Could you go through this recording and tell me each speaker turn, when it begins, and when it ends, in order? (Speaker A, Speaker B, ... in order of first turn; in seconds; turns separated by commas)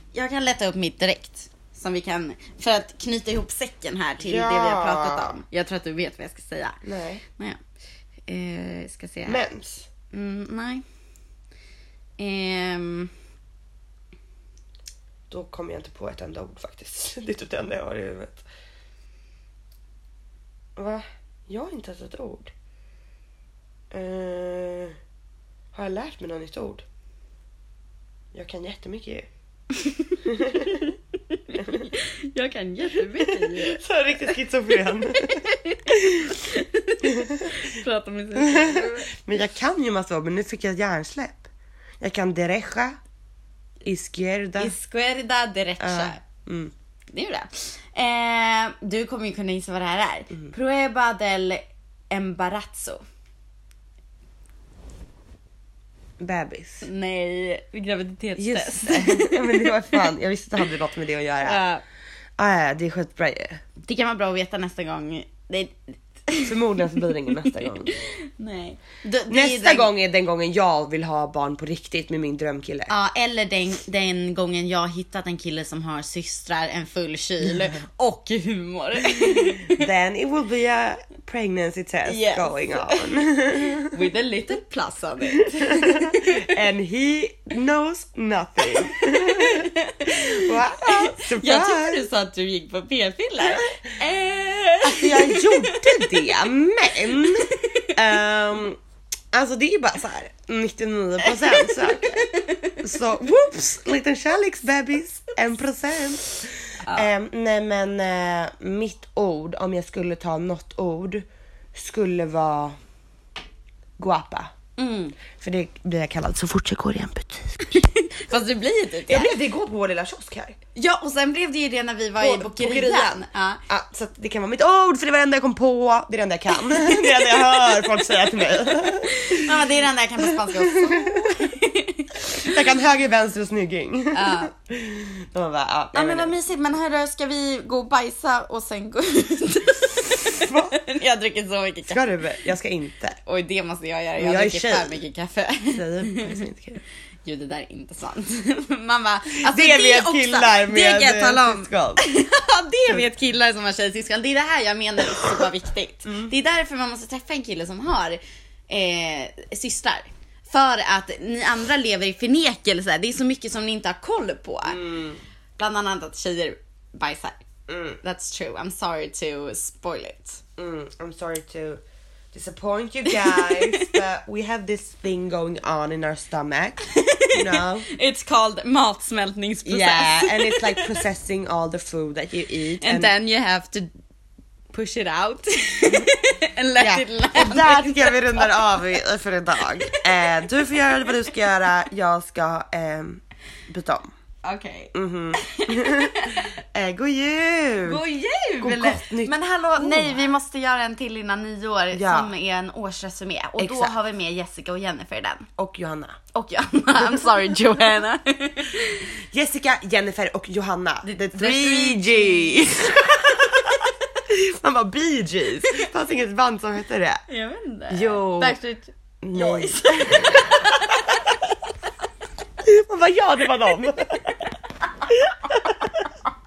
Speaker A: 0.1-6.8, Speaker B: 4.2-5.3, Speaker B: 6.8-7.2, Speaker A: 8.3-9.4, Speaker B: 9.3-9.9, Speaker A: 10.1-10.8, Speaker A: 12.2-13.1, Speaker B: 15.3-18.4, Speaker B: 20.8-22.5, Speaker B: 23.9-25.0, Speaker B: 25.7-26.9, Speaker B: 28.3-29.3, Speaker A: 29.7-33.8, Speaker B: 30.2-30.9, Speaker B: 31.6-31.9, Speaker B: 33.0-36.3, Speaker A: 35.1-39.1, Speaker B: 37.0-37.6, Speaker B: 38.4-41.5, Speaker B: 42.0-43.0, Speaker B: 43.8-44.7, Speaker A: 44.6-46.2, Speaker B: 45.8-46.7, Speaker A: 47.1-53.0, Speaker B: 56.2-56.9, Speaker A: 56.8-60.1, Speaker B: 58.4-61.6, Speaker A: 61.4-61.8, Speaker B: 62.4-63.6, Speaker A: 63.8-69.9, Speaker B: 66.4-67.9, Speaker B: 69.3-72.9, Speaker A: 72.9-79.8, Speaker B: 79.2-84.0, Speaker A: 82.0-86.5, Speaker B: 85.4-92.0, Speaker A: 88.7-96.3, Speaker B: 94.8-98.8, Speaker A: 97.2-97.9, Speaker B: 99.3-102.3, Speaker A: 101.2-102.8, Speaker B: 102.8-112.8, Speaker B: 114.0-114.5, Speaker A: 114.8-115.2, Speaker B: 115.3-117.9, Speaker A: 117.7-119.4, Speaker B: 119.1-120.6, Speaker A: 120.8-123.6, Speaker B: 122.2-129.7, Speaker A: 126.6-128.0, Speaker A: 129.0-132.6, Speaker B: 130.2-131.5, Speaker B: 132.3-136.3, Speaker A: 134.1-134.5, Speaker A: 135.9-142.3, Speaker B: 140.3-140.8, Speaker B: 141.9-143.2, Speaker A: 143.3-146.4, Speaker B: 144.2-145.0, Speaker B: 145.7-146.8, Speaker A: 147.2-164.8, Speaker B: 149.4-152.0, Speaker B: 164.7-165.2, Speaker A: 165.6-167.4, Speaker B: 167.7-168.0, Speaker A: 168.0-170.4, Speaker B: 170.6-177.9, Speaker A: 173.1-174.0, Speaker A: 176.9-181.0, Speaker B: 179.7-183.1, Speaker A: 182.8-183.9, Speaker A: 184.7-189.0, Speaker B: 185.9-186.1, Speaker B: 186.8-194.1, Speaker A: 189.9-190.4, Speaker A: 194.4-196.5, Speaker B: 194.9-198.0, Speaker A: 197.8-205.5, Speaker B: 198.6-200.3, Speaker B: 201.9-202.3, Speaker B: 203.6-203.9, Speaker B: 205.6-206.2, Speaker A: 206.3-209.1, Speaker B: 207.0-207.7, Speaker B: 209.3-217.2, Speaker A: 211.0-212.8, Speaker A: 217.3-221.0, Speaker B: 217.9-218.6, Speaker B: 219.2-221.2, Speaker B: 222.6-224.3, Speaker B: 225.1-226.0